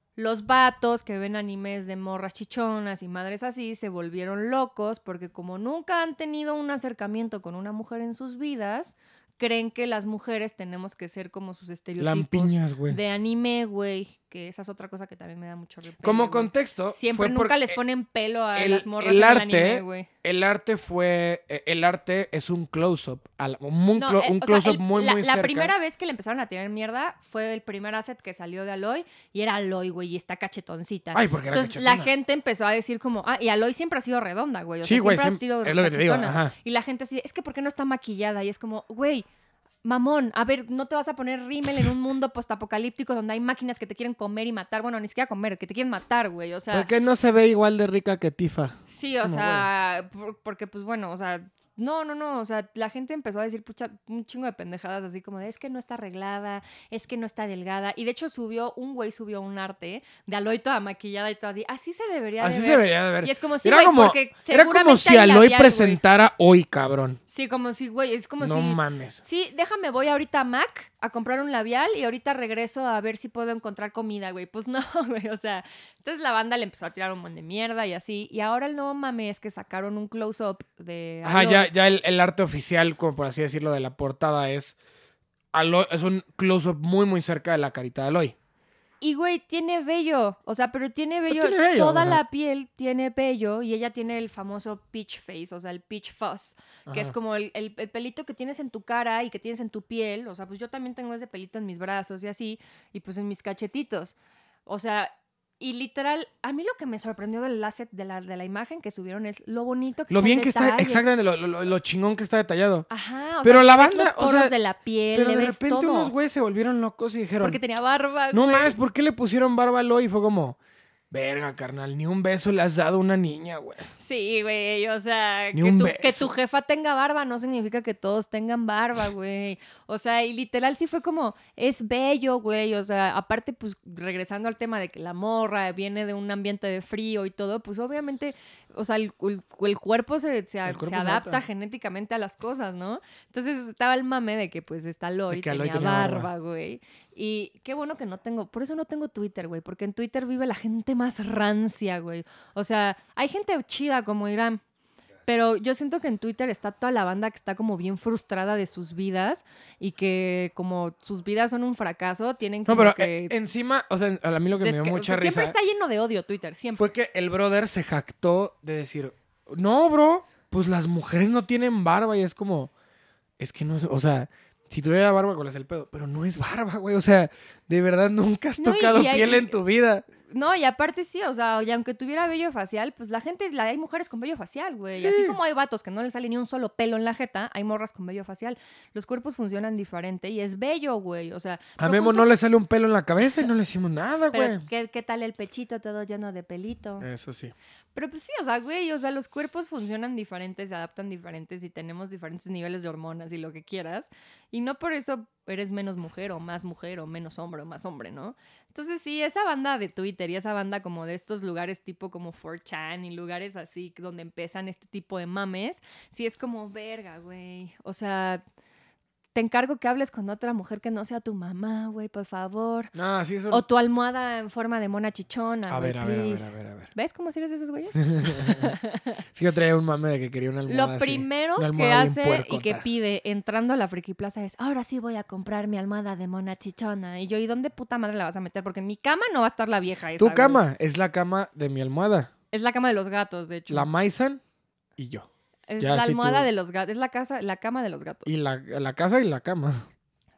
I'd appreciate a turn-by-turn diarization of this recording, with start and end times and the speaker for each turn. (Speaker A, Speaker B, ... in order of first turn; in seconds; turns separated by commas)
Speaker A: 0.2-20.1, Speaker B: 12.0-13.0, Speaker B: 16.0-17.8, Speaker B: 18.6-25.7, Speaker A: 23.9-39.2, Speaker B: 31.1-32.1, Speaker B: 34.8-36.5, Speaker A: 39.8-46.9, Speaker B: 46.7-49.6, Speaker A: 48.9-66.0, Speaker B: 62.4-67.2, Speaker A: 67.3-81.7, Speaker B: 68.4-69.2, Speaker B: 81.2-84.8, Speaker B: 85.5-88.3, Speaker A: 89.0-104.1, Speaker B: 91.3-92.2, Speaker B: 96.8-97.1, Speaker A: 104.7-111.0, Speaker B: 110.1-112.9, Speaker A: 112.9-116.1, Speaker B: 113.4-114.5, Speaker B: 115.1-117.6, Speaker A: 117.4-118.8, Speaker B: 118.3-120.6, Speaker B: 121.1-123.9, Speaker A: 124.0-154.6, Speaker B: 125.5-126.3, Speaker B: 140.7-141.4, Speaker B: 145.3-146.3, Speaker A: 155.3-163.3, Speaker B: 162.7-165.6, Speaker A: 164.6-166.9, Speaker B: 166.8-172.7, Speaker B: 173.4-180.1, Speaker A: 178.6-179.6, Speaker A: 180.3-192.3, Speaker B: 185.0-185.3, Speaker B: 191.8-194.6, Speaker A: 194.3-197.1, Speaker B: 197.0-197.5, Speaker A: 197.9-218.4, Speaker A: 219.3-222.9, Speaker B: 222.9-223.6, Speaker A: 223.5-229.2, Speaker B: 225.7-226.9, Speaker B: 227.9-228.7, Speaker B: 229.3-232.8, Speaker A: 230.7-240.6, Speaker B: 240.2-242.3, Speaker A: 242.5-243.9, Speaker B: 243.7-244.4, Speaker B: 245.0-245.3, Speaker A: 245.7-248.4, Speaker B: 245.8-246.5, Speaker B: 248.2-249.9